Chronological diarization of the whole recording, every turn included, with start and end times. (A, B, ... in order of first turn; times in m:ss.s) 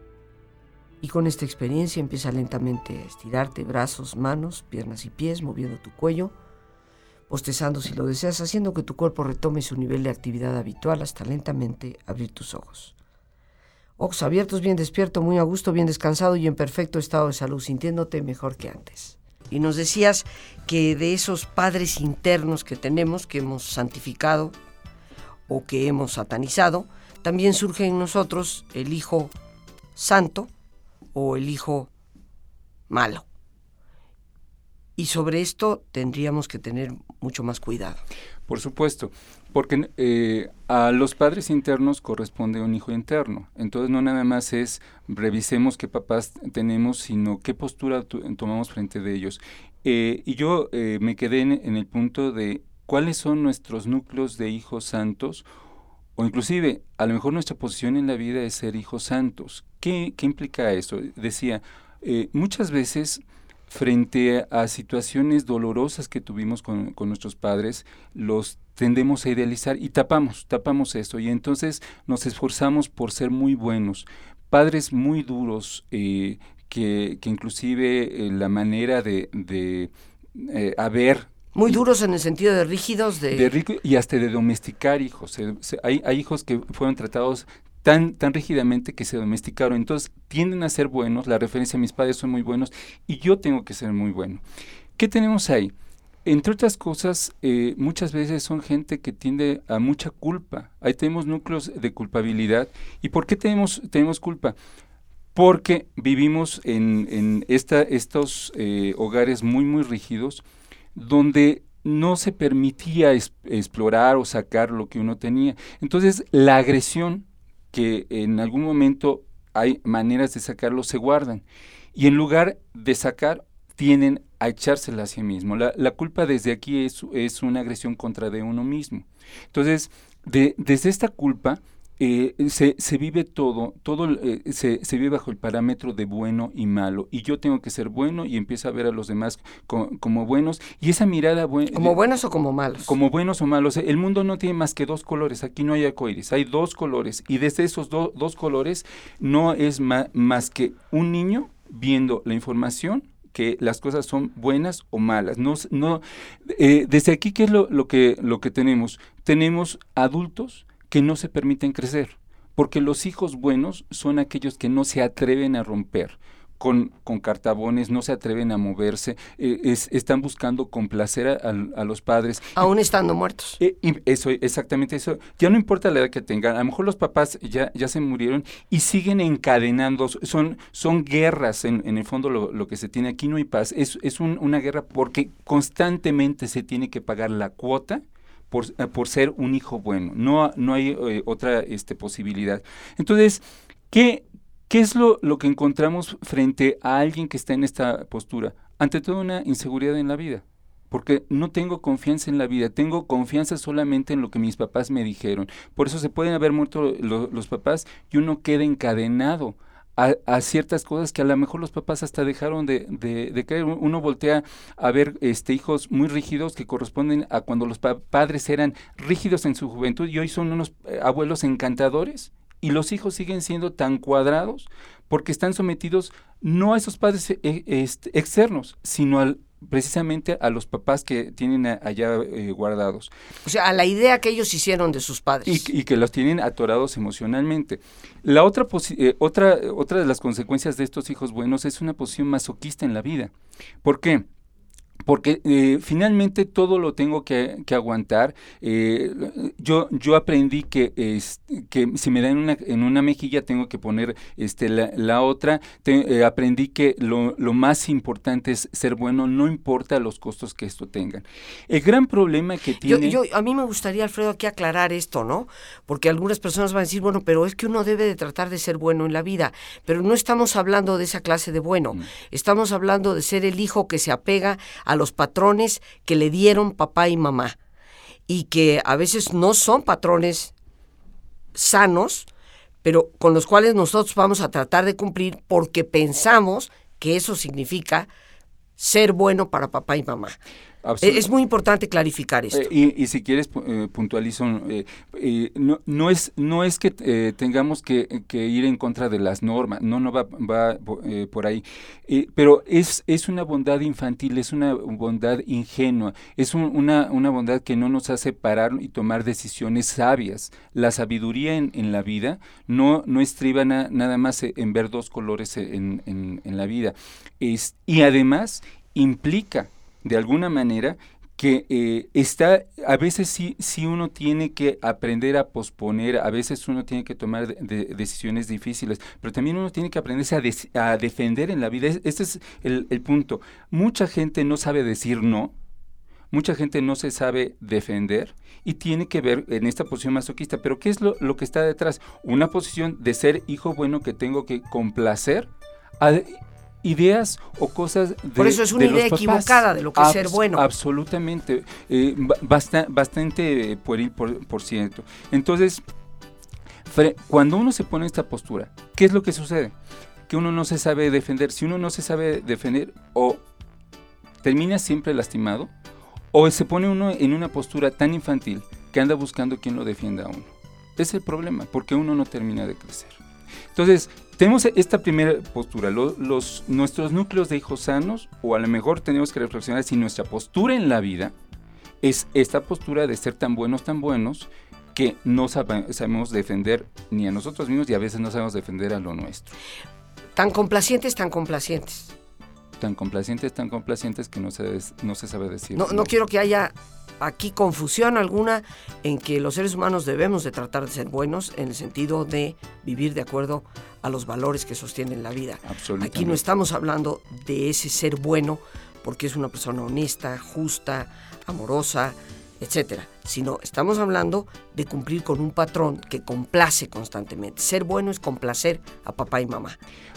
0:01.0-0:06.3 A
0:07.3-0:13.0 A
0:14.0-0:24.6 A
0:25.5-0:29.3 A
0:30.0-0:30.5 A
0:31.1-0:31.9 A
0:32.9-0:33.2 A
0:35.0-0:38.0 A
0:38.5-0:55.4 B
0:56.2-1:21.7 B
1:21.5-1:23.5 A
1:23.3-1:34.4 B
1:35.0-1:35.7 B
1:36.2-1:44.6 B
1:45.3-1:50.4 B
1:50.9-2:01.4 B
2:01.9-2:22.0 B
2:21.7-2:22.9 A
2:22.8-2:52.6 B
2:52.6-2:53.6 A
2:53.6-3:53.1 B
3:53.4-3:55.7 A
3:55.4-4:03.3 B
4:03.8-4:04.3 B
4:05.0-4:23.2 B
4:22.8-4:37.6 A
4:38.3-4:40.5 A
4:41.5-4:42.3 A
4:42.8-4:48.1 A
4:48.8-4:50.4 A
4:50.8-4:51.3 B
4:51.0-4:52.7 A
4:52.5-5:35.5 B
5:36.3-5:55.8 B
5:48.4-5:50.6 A
5:56.8-5:59.7 B
6:00.3-6:03.4 B
6:04.4-6:05.7 B
6:06.3-6:13.2 B
6:13.7-6:21.3 B
6:22.0-6:29.5 B
6:30.4-6:32.1 A
6:32.8-6:36.1 B
6:35.7-6:59.8 A
6:45.6-6:46.4 B